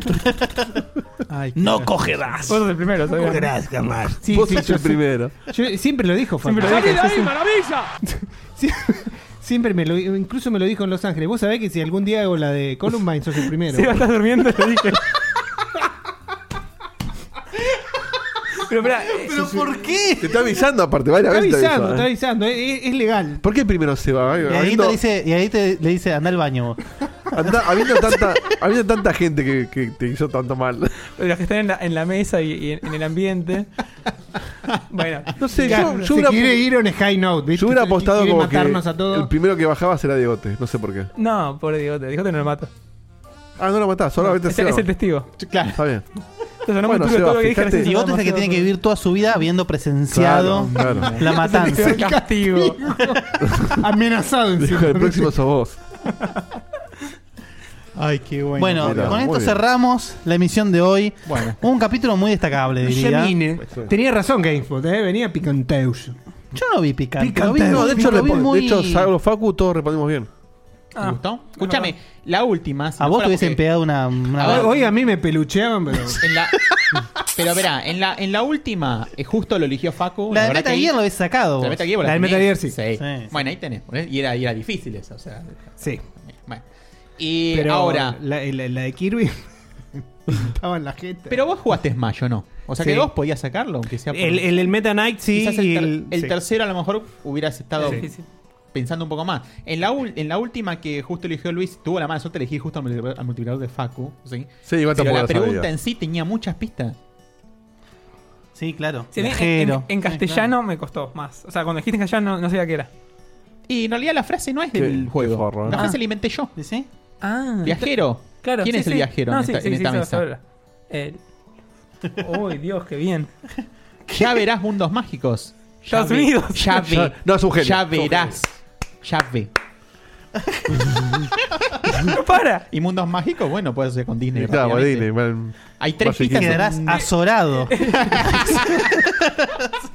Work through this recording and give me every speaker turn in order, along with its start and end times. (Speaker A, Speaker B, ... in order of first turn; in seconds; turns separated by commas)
Speaker A: 1.3-2.0, Speaker B: 1.6-1.9, Speaker C: 1.8-5.0, Speaker D: 2.5-3.5, Speaker E: 4.3-5.3, Speaker C: 5.5-14.0, Speaker D: 6.4-7.4, Speaker D: 13.7-15.0, Speaker D: 18.6-19.6, Speaker B: 19.2-20.4, Speaker E: 20.2-22.1, Speaker C: 21.3-23.4, Speaker E: 23.4-25.0, Speaker B: 24.5-26.8, Speaker E: 27.4-30.9, Speaker D: 31.2-33.7, Speaker D: 34.9-35.8, Speaker E: 35.4-36.6, Speaker C: 35.5-39.3, Speaker E: 37.6-41.1, Speaker D: 41.1-42.7, Speaker E: 43.6-44.9, Speaker D: 44.5-45.3, Speaker A: 45.4-45.8, Speaker E: 45.8-46.0, Speaker D: 46.6-48.7, Speaker E: 46.8-47.9, Speaker B: 47.8-52.1, Speaker E: 50.1-51.2, Speaker A: 50.6-51.3, Speaker C: 51.4-53.1, Speaker D: 51.5-52.8, Speaker C: 53.8-55.3, Speaker E: 54.6-55.8, Speaker A: 58.0-59.2, Speaker B: 58.6-63.4, Speaker E: 58.8-59.6, Speaker A: 61.3-61.6, Speaker C: 62.8-66.2, Speaker B: 66.5-69.1, Speaker C: 67.2-68.4, Speaker E: 67.7-70.3, Speaker D: 71.0-71.9, Speaker A: 71.0-73.6, Speaker B: 73.0-74.7, Speaker A: 74.4-74.9, Speaker C: 74.4-76.2, Speaker A: 76.2-76.6, Speaker A: 77.4-81.0, Speaker B: 80.3-81.9, Speaker A: 81.6-86.6, Speaker C: 82.0-82.8, Speaker B: 83.0-83.3, Speaker A: 87.2-88.2, Speaker C: 87.5-89.5, Speaker C: 90.3-91.4, Speaker A: 91.3-94.7, Speaker C: 92.8-93.1, Speaker C: 94.1-96.4, Speaker A: 95.2-98.1, Speaker D: 97.8-98.2, Speaker C: 97.8-98.0, Speaker A: 98.7-107.0, Speaker E: 104.7-105.7, Speaker B: 108.5-110.5, Speaker D: 109.1-112.9, Speaker A: 113.7-116.5, Speaker E: 114.7-115.8, Speaker B: 115.7-116.0, Speaker B: 116.5-116.9, Speaker D: 117.2-121.2, Speaker A: 117.6-120.2, Speaker D: 122.2-123.3, Speaker A: 124.1-128.5, Speaker D: 125.9-126.8, Speaker E: 126.8-128.2, Speaker A: 129.0-129.5, Speaker D: 132.1-132.7, Speaker A: 132.7-135.1, Speaker E: 134.4-136.6, Speaker A: 135.8-137.1, Speaker B: 136.3-138.5, Speaker D: 137.7-138.1, Speaker A: 138.0-138.8, Speaker B: 139.2-139.6